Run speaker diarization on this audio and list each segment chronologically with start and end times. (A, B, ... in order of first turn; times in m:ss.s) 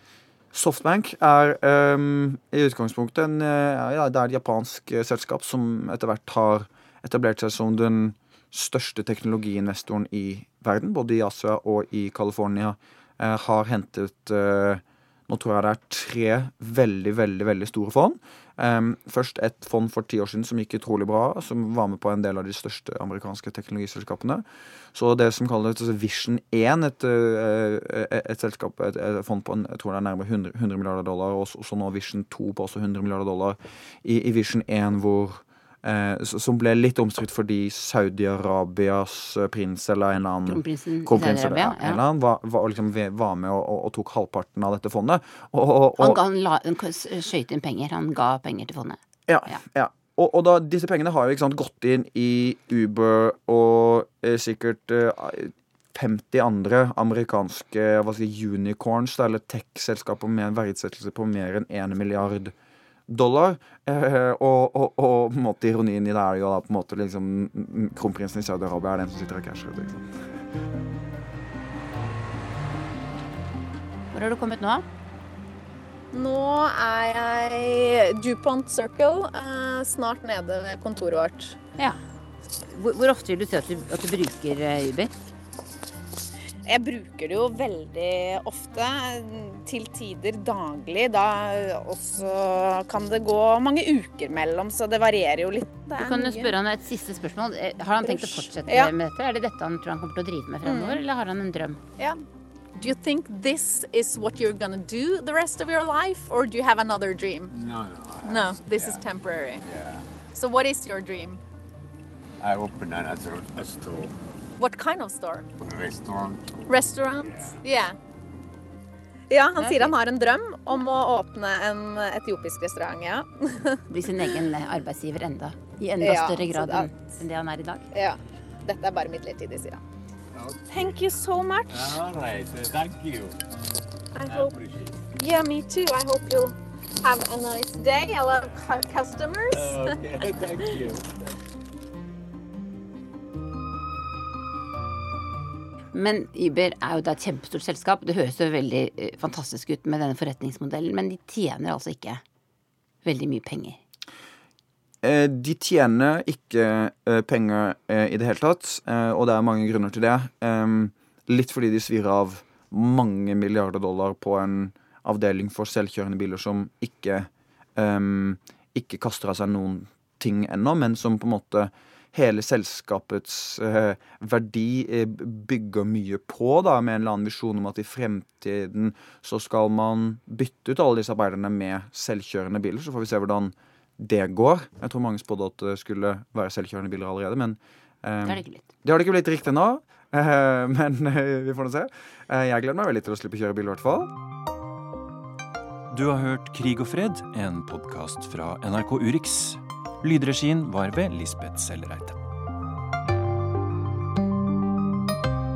0:00.5-0:46.2 A
0:40.4-0:42.0 B
0:46.0-0:49.6 B
0:49.3-1:02.5 A
1:03.1-1:10.1 A
1:14.1-1:14.8 B
1:16.1-1:21.6 C
1:22.7-1:25.1 B
1:26.7-1:36.6 C
1:36.0-1:41.8 B
1:38.0-1:38.9 C
1:40.6-1:41.0 C
1:42.7-1:47.6 C
1:47.5-1:49.0 D
1:48.2-1:49.6 C
1:49.6-1:50.0 D
1:50.3-1:51.4 C
1:52.4-1:54.1 D
1:54.6-1:55.5 C
1:55.6-1:56.6 D
1:56.7-1:58.0 C
1:57.2-1:57.6 D
1:59.3-2:04.3 C
1:59.6-1:59.9 B
2:03.9-2:07.9 B
2:06.0-2:06.9 C
2:07.9-2:09.8 C
2:10.4-2:11.0 D
2:10.7-2:11.8 C
2:11.7-2:13.4 D
2:14.1-2:14.6 C
2:14.3-2:15.0 D
2:15.2-2:20.0 C
2:19.5-2:21.0 D
2:25.9-2:32.2 B
2:33.0-2:33.8 B
2:35.0-3:14.1 A
3:08.2-3:08.7 B
3:15.9-3:22.2 E